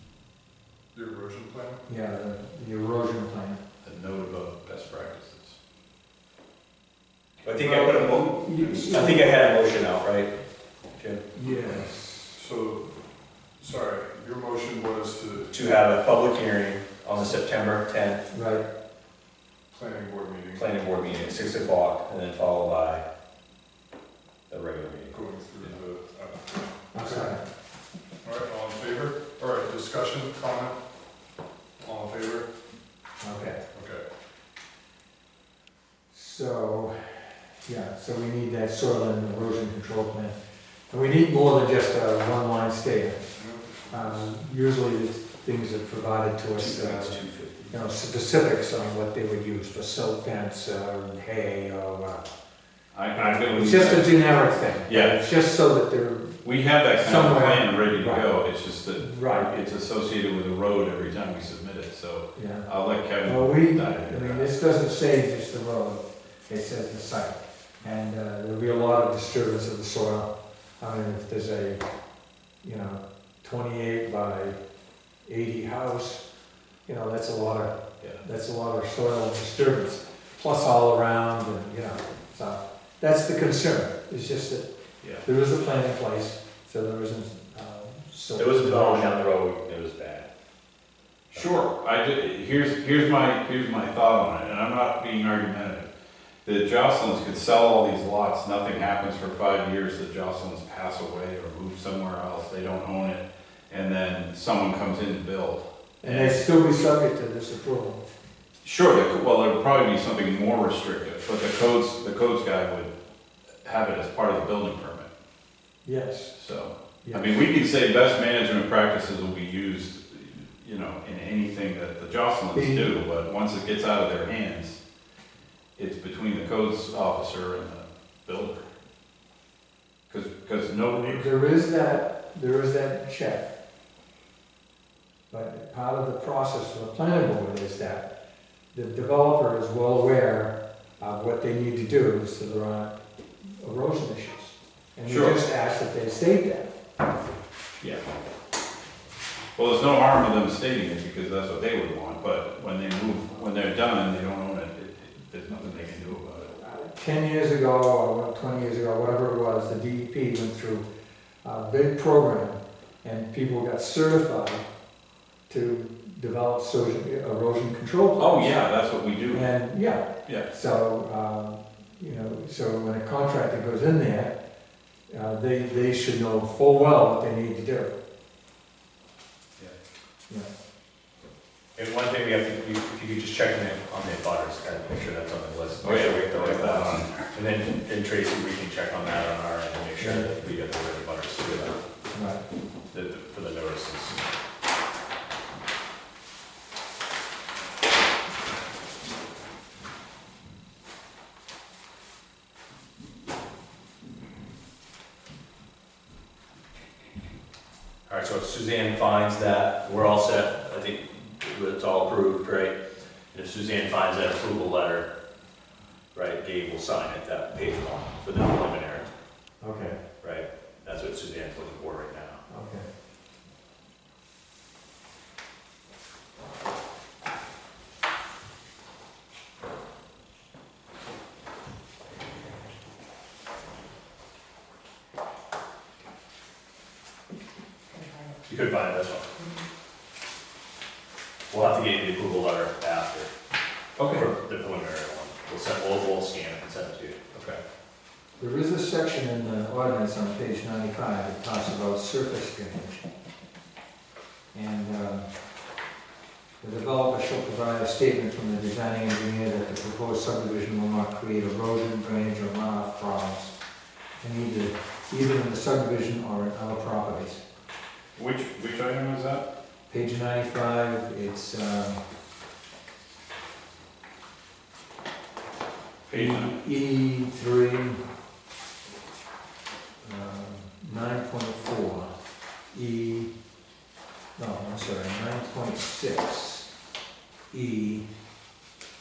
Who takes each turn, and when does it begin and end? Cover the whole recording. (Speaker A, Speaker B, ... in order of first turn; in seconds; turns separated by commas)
Speaker A: 0.9-1.8, Speaker B: 1.9-3.6, Speaker C: 3.8-5.6, Speaker D: 7.4-10.3, Speaker B: 7.6-9.5, Speaker A: 8.6-9.1, Speaker D: 10.9-11.2, Speaker B: 11.3-12.4, Speaker A: 12.3-12.9, Speaker A: 13.6-15.6, Speaker D: 15.5-18.2, Speaker B: 18.3-18.7, Speaker A: 19.7-20.7, Speaker D: 20.6-23.0, Speaker D: 24.5-25.1, Speaker A: 25.1-27.4, Speaker B: 26.9-27.4, Speaker A: 28.2-30.8, Speaker A: 31.8-32.5, Speaker B: 33.2-33.6, Speaker A: 33.7-34.0, Speaker B: 36.1-40.4, Speaker B: 40.9-43.2, Speaker A: 43.4-44.3, Speaker B: 43.9-47.2, Speaker D: 46.6-47.7, Speaker B: 47.7-52.3, Speaker C: 52.9-54.3, Speaker B: 53.1-56.4, Speaker C: 54.9-55.2, Speaker C: 56.4-64.5, Speaker B: 56.9-58.3, Speaker B: 59.0-59.5, Speaker B: 62.4-62.7, Speaker B: 63.2-70.3, Speaker B: 70.8-71.8, Speaker B: 72.6-74.6, Speaker B: 75.2-76.2, Speaker B: 76.9-84.7, Speaker B: 85.2-89.2, Speaker D: 88.4-90.3, Speaker C: 91.3-95.9, Speaker D: 91.3-91.6, Speaker C: 96.5-106.4, Speaker B: 106.0-108.0, Speaker C: 108.6-112.9, Speaker C: 113.6-115.1, Speaker B: 115.8-116.3, Speaker C: 116.4-124.8, Speaker B: 117.0-117.4, Speaker B: 122.5-122.9, Speaker C: 125.8-128.7, Speaker C: 130.1-131.3, Speaker B: 130.9-133.5, Speaker B: 135.3-138.1, Speaker B: 138.7-146.7, Speaker C: 145.1-145.4, Speaker C: 149.6-156.6, Speaker B: 156.7-160.8, Speaker B: 161.4-164.7, Speaker B: 165.5-168.6, Speaker C: 168.2-169.5, Speaker B: 169.3-174.3, Speaker B: 175.1-177.9, Speaker D: 181.8-191.8, Speaker C: 185.8-187.3, Speaker B: 190.0-190.3, Speaker B: 192.1-192.4, Speaker D: 192.9-194.2, Speaker D: 208.1-212.8, Speaker D: 213.3-215.1, Speaker D: 216.1-219.1, Speaker B: 219.6-220.0, Speaker D: 220.2-222.4, Speaker B: 222.5-222.9, Speaker D: 238.4-239.4, Speaker D: 241.5-243.3, Speaker C: 244.0-244.3, Speaker D: 244.1-247.2, Speaker C: 247.3-247.6, Speaker B: 248.4-253.0, Speaker B: 254.5-255.3, Speaker B: 256.6-263.5, Speaker B: 264.2-267.4, Speaker C: 268.2-269.4, Speaker B: 269.9-272.0, Speaker C: 276.1-276.6, Speaker B: 276.1-278.0, Speaker B: 280.0-282.1, Speaker B: 282.7-283.3, Speaker B: 284.4-286.7, Speaker B: 287.5-288.1